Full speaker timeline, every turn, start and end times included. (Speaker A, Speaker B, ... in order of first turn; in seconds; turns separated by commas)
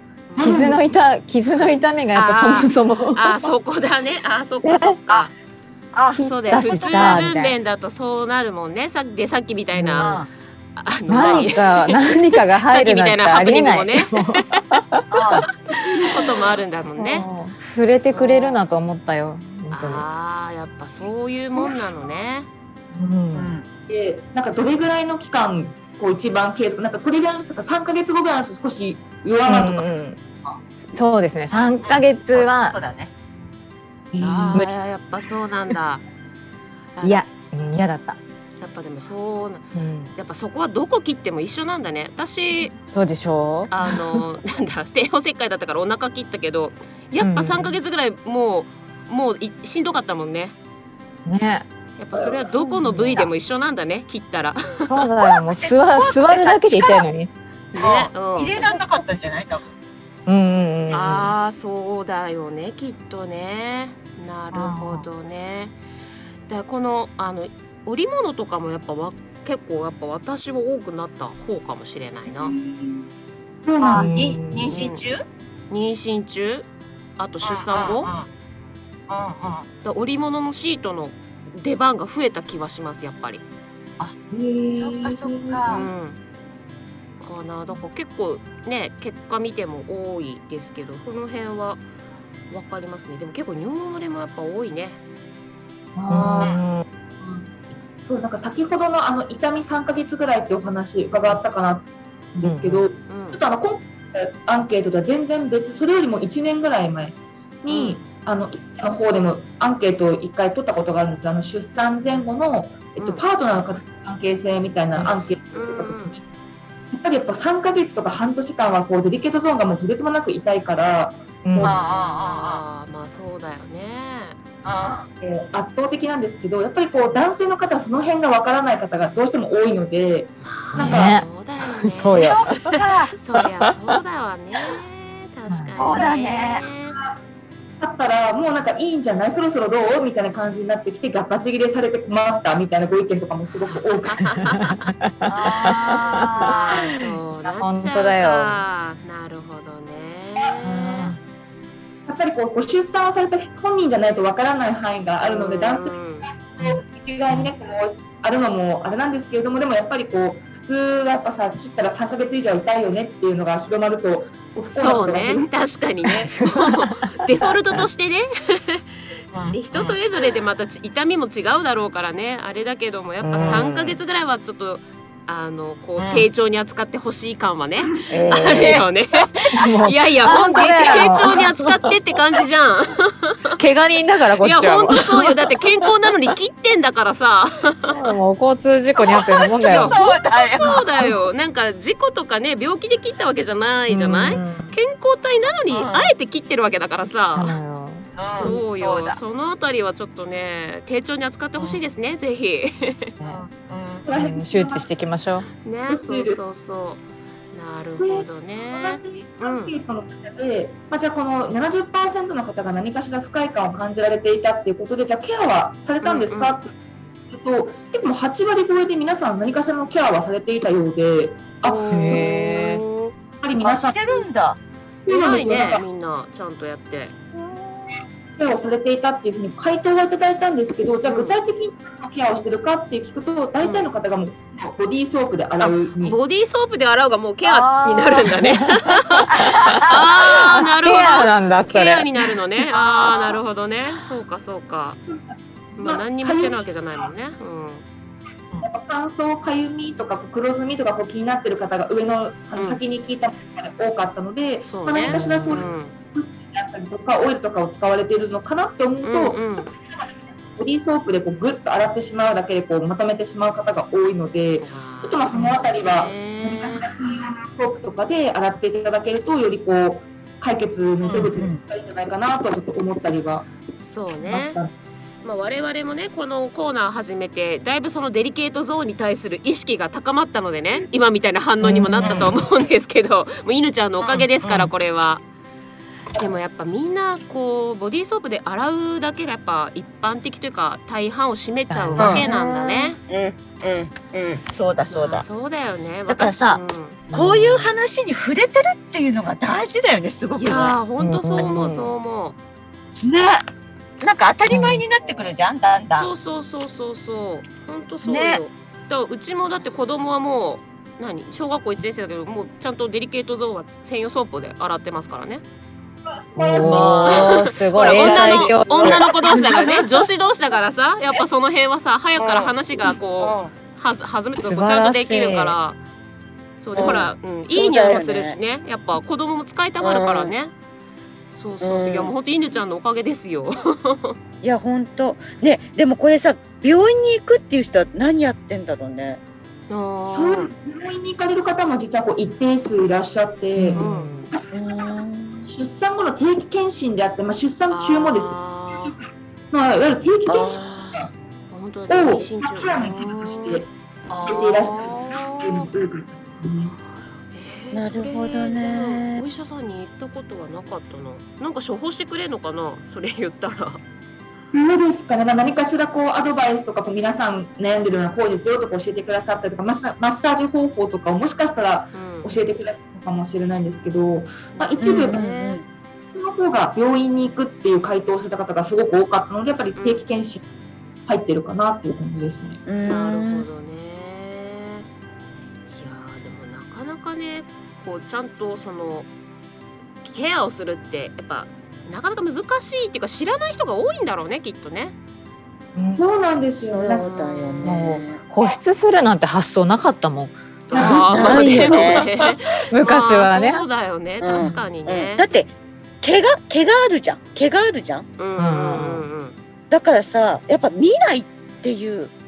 Speaker A: 0.3-0.7, Speaker B: 0.4-0.8, Speaker C: 0.4-3.4, Speaker A: 2.1-5.3, Speaker C: 4.6-5.0, Speaker D: 5.9-7.3, Speaker C: 6.1-7.5, Speaker A: 6.2-10.2, Speaker C: 9.7-10.2, Speaker D: 10.0-10.3, Speaker A: 10.8-14.6, Speaker C: 11.1-15.4, Speaker D: 15.1-15.4, Speaker B: 15.9-16.2, Speaker A: 16.0-17.3, Speaker C: 17.0-20.1, Speaker A: 18.0-18.6, Speaker A: 19.7-22.5, Speaker C: 22.9-23.5, Speaker D: 23.3-23.6, Speaker B: 23.9-29.9, Speaker C: 29.4-30.2, Speaker C: 30.8-32.8, Speaker D: 31.8-33.1, Speaker B: 34.1-34.6, Speaker A: 34.2-36.0, Speaker A: 37.0-37.2, Speaker C: 37.0-38.2, Speaker A: 38.6-39.6, Speaker C: 39.7-40.1, Speaker A: 40.1-42.7, Speaker C: 42.9-44.2, Speaker A: 43.7-50.5, Speaker C: 47.2-47.8, Speaker C: 51.2-51.7, Speaker A: 52.0-55.1, Speaker C: 52.9-53.3, Speaker C: 54.9-57.3, Speaker D: 55.5-57.0, Speaker A: 57.7-58.6, Speaker D: 57.8-59.7, Speaker C: 60.2-61.3, Speaker A: 60.9-65.8, Speaker D: 64.5-65.0, Speaker A: 66.5-72.5, Speaker B: 72.3-73.1, Speaker B: 73.6-74.2, Speaker D: 73.8-75.2, Speaker C: 73.9-74.8, Speaker A: 74.7-75.0, Speaker A: 75.7-76.7, Speaker A: 77.2-78.1, Speaker D: 77.4-78.3, Speaker D: 79.1-79.6, Speaker A: 79.8-83.4, Speaker D: 84.0-85.9, Speaker B: 84.3-85.6, Speaker A: 85.7-86.2, Speaker A: 87.2-91.8, Speaker A: 92.5-95.0, Speaker B: 95.9-96.5, Speaker C: 96.1-96.8, Speaker B: 97.2-116.2, Speaker C: 102.4-102.8, Speaker A: 103.1-103.4, Speaker A: 107.7-108.0, Speaker A: 113.0-113.2, Speaker A: 115.5-116.2, Speaker B: 116.9-121.8, Speaker C: 121.4-121.7, Speaker D: 121.6-122.6, Speaker A: 121.7-124.4, Speaker D: 124.6-125.0, Speaker B: 125.2-131.1, Speaker A: 130.4-132.3, Speaker C: 130.7-131.2, Speaker C: 131.8-132.8, Speaker D: 132.2-133.1, Speaker A: 133.1-137.0, Speaker C: 135.5-135.8, Speaker D: 135.8-136.6, Speaker B: 137.8-144.4, Speaker A: 144.1-144.9, Speaker C: 144.9-146.5, Speaker D: 145.3-147.0, Speaker A: 146.4-151.1, Speaker C: 147.5-148.6, Speaker D: 150.6-151.2, Speaker B: 152.1-165.5, Speaker A: 155.2-156.3, Speaker A: 164.7-168.8, Speaker C: 166.2-167.8, Speaker D: 169.3-169.9, Speaker A: 169.5-183.6, Speaker C: 173.2-174.0, Speaker D: 173.3-173.7, Speaker D: 176.0-176.3, Speaker C: 178.1-178.8, Speaker D: 178.3-178.9, Speaker C: 179.5-181.8, Speaker C: 183.6-185.4, Speaker A: 184.4-188.0, Speaker C: 187.9-190.0, Speaker A: 189.6-197.6, Speaker D: 189.6-191.1, Speaker C: 193.9-194.7, Speaker D: 195.7-196.1, Speaker C: 197.3-198.5, Speaker D: 198.2-199.2, Speaker A: 198.3-203.1, Speaker D: 203.2-204.1, Speaker B: 204.1-204.8, Speaker C: 204.1-205.5, Speaker A: 205.6-209.7, Speaker B: 205.9-206.4, Speaker B: 208.0-216.7, Speaker A: 216.0-216.6, Speaker B: 217.3-222.4, Speaker A: 221.6-223.1, Speaker C: 221.9-222.8, Speaker B: 223.4-224.2, Speaker D: 223.6-224.6, Speaker B: 225.1-225.8, Speaker A: 225.1-227.2, Speaker B: 228.4-236.2, Speaker A: 231.0-231.4, Speaker A: 233.6-233.9, Speaker A: 235.6-245.0, Speaker C: 237.5-242.3, Speaker B: 242.8-243.3, Speaker B: 245.7-246.6, Speaker A: 245.8-247.8, Speaker B: 248.6-273.5, Speaker A: 254.6-255.9, Speaker C: 255.1-255.6, Speaker A: 259.0-259.7, Speaker A: 264.6-266.9, Speaker D: 271.0-271.6, Speaker A: 273.8-274.6, Speaker B: 274.1-274.7, Speaker A: 275.2-285.2, Speaker C: 281.6-282.2, Speaker D: 282.0-282.3, Speaker D: 284.0-284.6, Speaker A: 286.1-293.0, Speaker C: 291.7-292.8, Speaker D: 292.0-292.3, Speaker D: 293.1-295.2, Speaker A: 294.9-297.0, Speaker D: 296.1-300.8, Speaker C: 297.1-297.7, Speaker A: 300.4-302.4, Speaker C: 301.0-301.9, Speaker D: 303.0-303.4, Speaker D: 304.0-306.1, Speaker C: 304.5-304.8, Speaker A: 305.9-315.4, Speaker D: 308.0-308.4, Speaker B: 316.1-317.3, Speaker C: 316.4-319.0, Speaker D: 316.6-317.2, Speaker A: 316.6-325.8, Speaker D: 317.8-319.8, Speaker D: 322.2-322.5, Speaker D: 323.2-323.5, Speaker C: 324.4-325.6, Speaker A: 326.6-330.5, Speaker D: 326.8-328.4, Speaker D: 329.8-330.3, Speaker A: 331.3-334.1, Speaker D: 331.6-332.1, Speaker D: 334.4-339.2, Speaker A: 339.7-340.5, Speaker B: 340.0-344.9, Speaker C: 343.6-344.3, Speaker A: 343.8-344.1, Speaker D: 344.5-345.5, Speaker B: 345.4-351.1, Speaker A: 347.7-348.9, Speaker D: 350.3-351.1, Speaker A: 351.5-353.6, Speaker B: 351.9-353.7, Speaker A: 354.1-355.7, Speaker B: 354.2-356.8, Speaker A: 356.8-363.8, Speaker D: 357.7-359.2, Speaker B: 364.5-375.2, Speaker A: 371.9-372.4, Speaker A: 374.5-375.6, Speaker D: 374.8-375.6, Speaker B: 376.1-380.4, Speaker A: 379.8-380.0, Speaker B: 381.1-382.6, Speaker D: 382.6-383.4, Speaker A: 382.9-384.9, Speaker A: 385.7-389.1, Speaker A: 390.0-394.9, Speaker C: 395.7-396.0, Speaker B: 395.8-397.1, Speaker D: 396.6-398.2, Speaker A: 397.0-397.9, Speaker C: 397.6-403.6, Speaker A: 400.7-405.2, Speaker B: 400.7-401.8, Speaker D: 400.8-402.1, Speaker D: 404.2-405.5, Speaker C: 404.4-404.6, Speaker D: 406.0-408.1, Speaker A: 408.2-409.3, Speaker C: 408.4-409.1, Speaker D: 409.7-412.1